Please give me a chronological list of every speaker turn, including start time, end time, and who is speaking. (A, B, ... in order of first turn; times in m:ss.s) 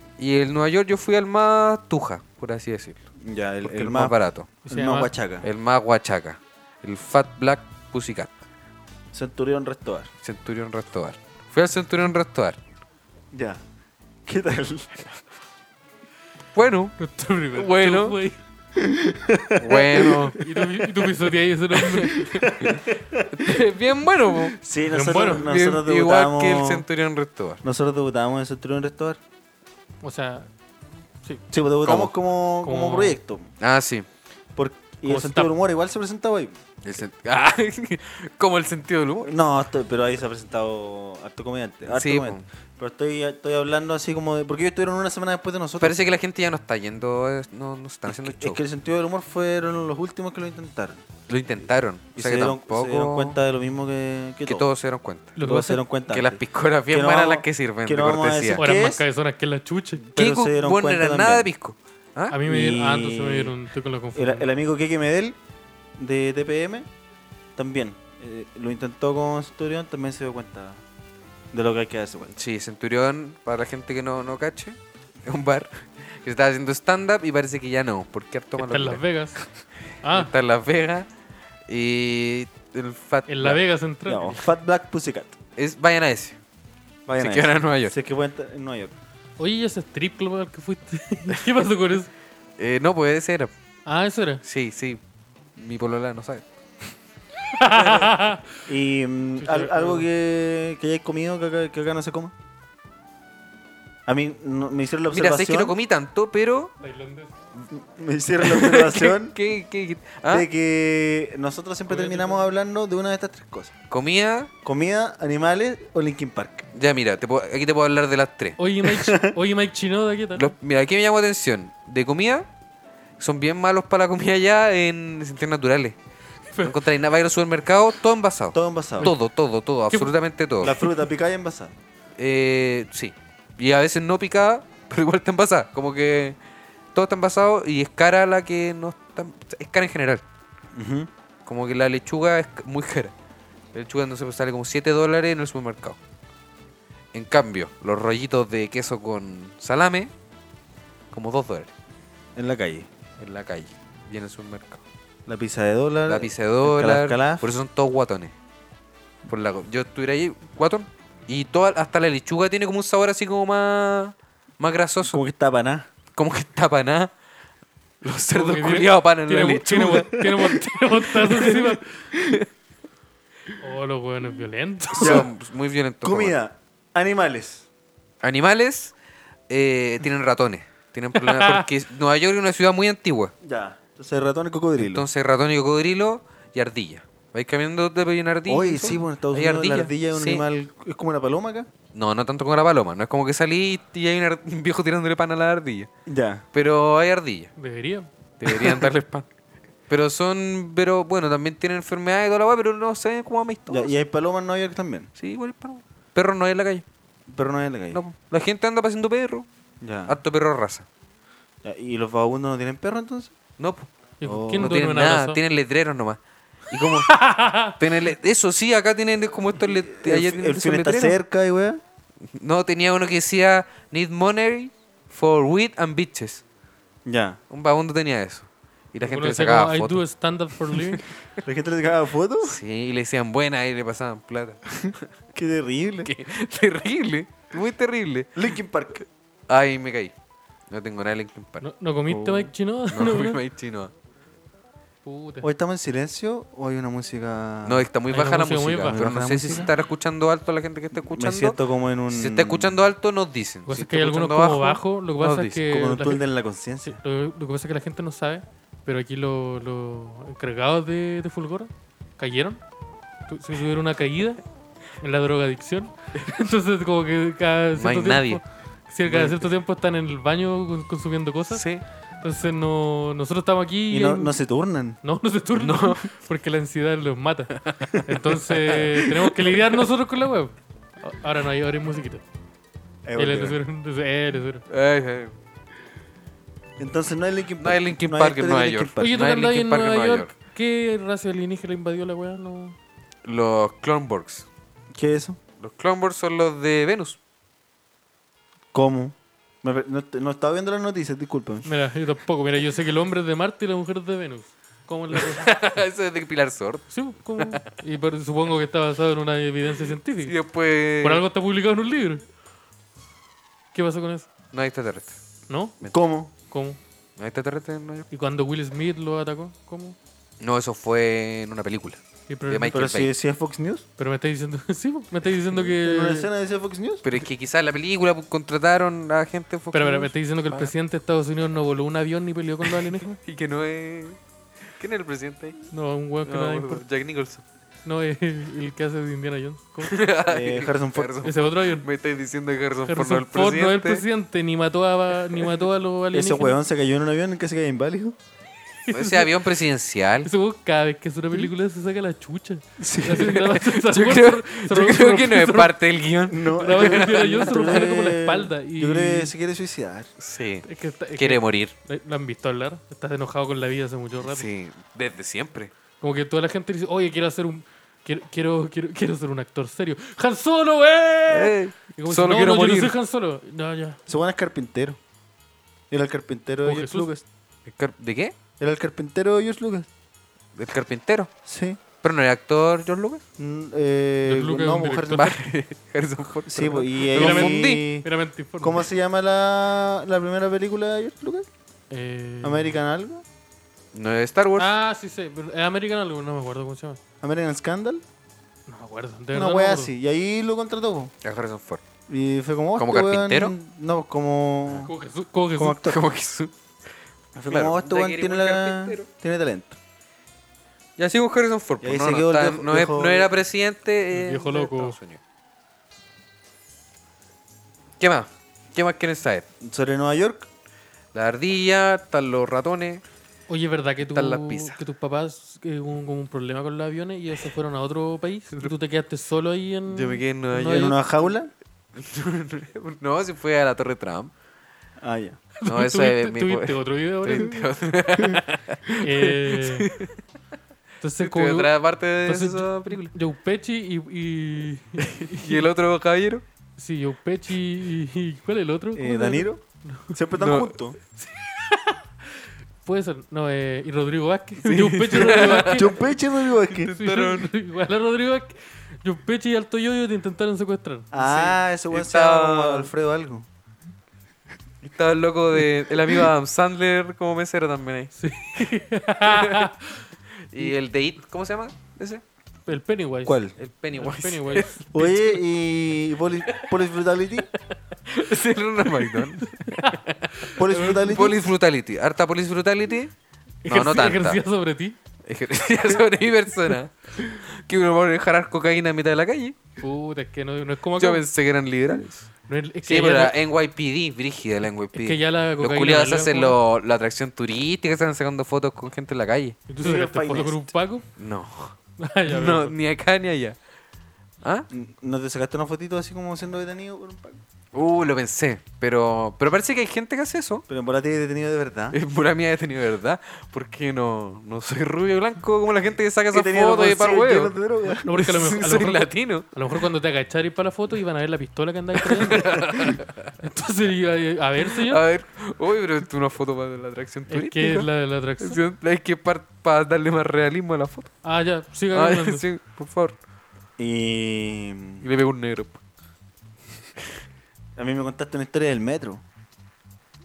0:00.2-0:03.0 A
0:03.2-0:04.1 B
0:03.6-0:04.5 A
0:04.6-0:05.1 C
0:04.7-0:05.5 B
0:05.4-0:08.3 A
0:09.1-0:10.1 B
0:10.2-0:12.6 A
0:13.3-0:13.6 B
0:14.2-0:15.2 B
0:16.5-0:17.0 A
0:17.0-0:18.4 C
0:17.5-0:18.2 A
0:18.7-0:20.6 B
0:19.6-0:20.4 A
0:20.0-0:22.2 C
0:21.7-0:24.6 A
0:22.1-0:23.6 B
0:24.5-0:26.8 B
0:24.9-0:25.5 C
0:25.2-0:27.6 A
0:27.6-0:29.2 B
0:30.0-0:30.5 C
0:31.5-0:33.5 B
0:31.8-0:32.1 A
0:32.6-0:33.2 C
0:33.6-0:34.0 A
0:34.6-0:36.5 B
0:35.0-0:35.5 C
0:36.8-0:39.3 A
0:39.2-0:46.2 B
0:41.9-0:42.4 A
0:45.8-0:48.6 A
0:48.1-0:51.0 B
0:51.3-0:53.4 A
0:52.2-0:54.7 B
0:54.4-0:55.4 A
0:55.4-0:55.8 C
0:55.4-0:59.0 B
0:56.1-0:58.6 A
0:58.6-1:00.0 C
1:00.1-1:01.5 B
1:00.1-1:02.4 A
1:02.3-1:04.5 C
1:02.4-1:03.5 B
1:04.1-1:05.4 B
1:06.0-1:06.9 B
1:07.6-1:10.8 B
1:11.5-1:12.3 B
1:12.3-1:19.0 A
1:18.6-1:19.4 C
1:20.0-1:20.3 C
1:20.1-1:21.1 A
1:21.7-1:23.6 A
1:23.3-1:24.5 C
1:24.1-1:25.4 B
1:25.6-1:26.4 A
1:27.0-1:28.9 B
1:27.2-1:27.9 A
1:29.4-1:32.1 C
1:32.6-1:33.5 A
1:33.9-1:34.4 C
1:34.4-1:35.0 A
1:35.6-1:36.4 A
1:37.5-1:38.5 C
1:37.6-1:38.2 A
1:38.6-1:42.3 B
1:39.4-1:40.1 C
1:44.0-1:45.7 B
1:45.1-1:46.7 A
1:46.8-1:47.3 C
1:47.7-1:49.3 B
1:48.4-1:50.5 A
1:50.3-1:53.7 B
1:51.9-1:52.5 C
1:53.9-1:54.5 A
1:54.6-1:56.7 B
1:56.7-1:58.6 A
1:58.6-2:00.5 C
1:58.8-1:59.4 B
2:00.4-2:02.5 A
2:03.2-2:06.0 A
2:06.4-2:06.8 C
2:06.6-2:10.8 A
2:08.5-2:09.1 B
2:10.6-2:11.7 B
2:10.6-2:11.0 C
2:12.2-2:16.4 A
2:16.9-2:20.2 A
2:20.7-2:21.1 B
2:21.4-2:23.1 A
2:23.7-2:26.0 A
2:27.1-2:30.1 A
2:31.1-2:31.7 A
2:32.4-2:32.9 B
2:33.2-2:34.8 A
2:35.3-2:37.5 B
2:36.0-2:38.3 A
2:39.2-2:45.2 A
2:45.0-2:45.9 B
2:46.2-2:47.1 A
2:48.0-2:52.4 A
2:48.3-2:52.1 C
2:53.6-2:55.3 C
2:54.9-2:56.4 A
2:55.0-2:55.3 B
2:56.0-2:57.7 B
2:58.2-2:58.9 A
2:59.5-3:03.3 A
3:01.2-3:01.6 C
3:03.4-3:05.0 B
3:04.8-3:10.4 A
3:08.5-3:11.7 B
3:11.9-3:15.9 A
3:16.0-3:16.4 B
3:16.5-3:17.5 A
3:17.6-3:18.1 C
3:18.4-3:19.2 A
3:18.5-3:18.8 B
3:19.9-3:23.9 A
3:23.7-3:25.1 B
3:25.2-3:26.8 A
3:27.3-3:28.0 B
3:27.9-3:29.4 A
3:29.8-3:30.2 B
3:30.1-3:30.8 A
3:31.6-3:33.3 B
3:33.6-3:33.9 A
3:34.2-3:35.4 C
3:34.2-3:34.8 B
3:34.6-3:36.2 A
3:36.7-3:37.2 A
3:37.0-3:37.8 C
3:37.7-3:41.2 A
3:40.0-3:41.8 B
3:42.3-3:46.4 A
3:47.0-3:47.4 B
3:47.5-3:50.0 A
3:49.0-3:51.0 C
3:51.4-3:52.6 B
3:52.4-3:55.1 A
3:54.8-3:56.1 B
3:56.0-3:58.3 A
3:58.4-3:59.0 B
3:59.5-4:00.1 A
4:00.7-4:01.6 A
4:01.6-4:03.4 C
4:02.1-4:02.5 B
4:02.9-4:03.9 A
4:05.0-4:05.5 C
4:05.4-4:07.9 B
4:07.6-4:11.6 A
4:08.1-4:09.1 C
4:08.9-4:09.7 B
4:10.9-4:12.7 B
4:12.1-4:15.6 A
4:13.7-4:16.2 C
4:15.7-4:17.0 B
4:16.8-4:22.6 C
4:23.3-4:24.4 C
4:25.0-4:31.6 C
4:27.8-4:28.4 A
4:31.5-4:31.8 A
4:32.2-4:34.4 C
4:33.9-4:35.0 B
4:35.0-4:42.2 C
4:35.6-4:36.1 A
4:37.6-4:39.4 A
4:43.0-4:43.6 B
4:43.2-4:44.6 C
4:44.7-4:45.3 A
4:46.8-4:49.2 B
4:47.6-4:50.3 A
4:49.0-4:52.8 C
4:53.2-4:54.4 A
4:54.9-4:55.4 B
4:55.6-4:57.2 A
4:58.7-5:01.6 B
5:01.6-5:05.5 C
5:05.1-5:07.6 A
5:06.9-5:10.3 C
5:10.2-5:11.2 A
5:11.0-5:12.2 C
5:13.7-5:14.3 C
5:14.5-5:15.2 A
5:15.5-5:15.8 C
5:15.9-5:16.3 B
5:16.5-5:16.8 C
5:17.2-5:18.1 A
5:18.1-5:20.0 C
5:20.4-5:23.1 A
5:22.3-5:22.8 C
5:22.7-5:23.8 B
5:24.0-5:26.3 C
5:25.7-5:27.0 B
5:27.0-5:30.7 A
5:29.7-5:33.2 C
5:33.2-5:34.2 A
5:34.8-5:35.6 A
5:35.7-5:36.8 C
5:36.2-5:37.4 A
5:37.8-5:40.0 C
5:39.8-5:44.0 A
5:40.3-5:41.2 B
5:41.2-5:41.9 C
5:42.9-5:46.6 C
5:46.1-5:48.2 B
5:48.9-5:49.3 C
5:48.9-5:50.3 A
5:50.2-5:55.7 C
5:52.8-5:53.4 B
5:53.2-5:57.8 A
5:56.3-6:00.1 B
5:56.6-5:59.3 C
6:00.2-6:00.6 A
6:00.6-6:04.5 C
6:01.2-6:01.7 A
6:04.2-6:05.7 A
6:06.0-6:14.0 C
6:11.3-6:12.9 A
6:14.0-6:15.0 B
6:15.9-6:17.2 B
6:16.6-6:17.1 C
6:17.6-6:18.4 A
6:18.6-6:19.9 B
6:20.6-6:21.3 A
6:21.4-6:21.8 B
6:22.0-6:23.2 A
6:23.4-6:25.3 B
6:24.2-6:25.4 C
6:25.1-6:27.8 A
6:26.5-6:28.1 B
6:27.1-6:28.8 C
6:28.6-6:31.5 B
6:31.9-6:32.8 C
6:32.4-6:33.2 B
6:33.9-6:34.7 A
6:34.6-6:37.0 C
6:37.2-6:38.0 B
6:38.7-6:39.9 C
6:39.3-6:41.1 B
6:41.2-6:41.8 A
6:42.1-6:44.9 B
6:42.8-6:43.5 A
6:44.7-6:45.8 C
6:45.6-6:46.0 B
6:45.8-6:46.5 A
6:47.3-6:49.8 B
6:47.4-6:49.1 A
6:51.0-6:55.2 A
6:51.8-6:53.3 B
6:54.1-6:55.0 C
6:58.0-6:59.4 A
6:59.6-7:00.5 B
7:01.1-7:03.0 A
7:03.5-7:11.0 C
7:04.1-7:04.8 A
7:09.9-7:10.9 A
7:10.5-7:11.5 B
7:12.0-7:14.3 A
7:15.0-7:15.4 B
7:15.6-7:17.6 C
7:15.6-7:20.1 A
7:19.0-7:19.9 C
7:21.0-7:21.7 C
7:21.2-7:23.1 A
7:22.2-7:25.7 C
7:25.0-7:26.4 A
7:26.8-7:30.1 C
7:28.9-7:31.0 B
7:30.4-7:30.7 A
7:31.2-7:36.0 C
7:34.6-7:36.1 A
7:35.2-7:36.9 B
7:36.7-7:37.5 A
7:36.9-7:41.1 C
7:41.1-7:43.5 B
7:41.1-7:42.9 A
7:44.8-7:48.7 A
7:48.2-7:50.0 C
7:49.2-7:49.7 A
7:50.5-7:52.2 A
7:52.7-7:55.1 C
7:53.2-7:53.5 B
7:53.6-7:54.9 A
7:54.9-7:57.5 B
7:56.5-7:56.8 A
7:58.1-8:03.1 A
7:59.5-8:01.2 C
8:00.5-8:01.4 B
8:03.6-8:05.0 C
8:03.7-8:04.4 A
8:05.3-8:09.6 A
8:09.8-8:11.2 C
8:10.9-8:12.3 A
8:12.5-8:13.3 C
8:12.9-8:19.6 A
8:14.9-8:16.6 C
8:19.7-8:21.0 C
8:19.8-8:20.6 B
8:21.2-8:21.8 A
8:22.0-8:22.7 C
8:22.3-8:23.6 A
8:24.7-8:27.4 B
8:27.7-8:30.6 A
8:30.7-8:32.0 B
8:31.9-8:37.5 A
8:36.3-8:38.2 B
8:38.0-8:45.0 C
8:38.1-8:39.5 A
8:42.0-8:43.3 A
8:44.8-8:47.9 A
8:47.3-8:48.6 C
8:48.4-8:51.1 A
8:51.2-8:52.4 C
8:51.9-8:53.2 A
8:53.8-8:55.0 B
8:55.0-8:55.8 A
8:57.8-8:59.2 B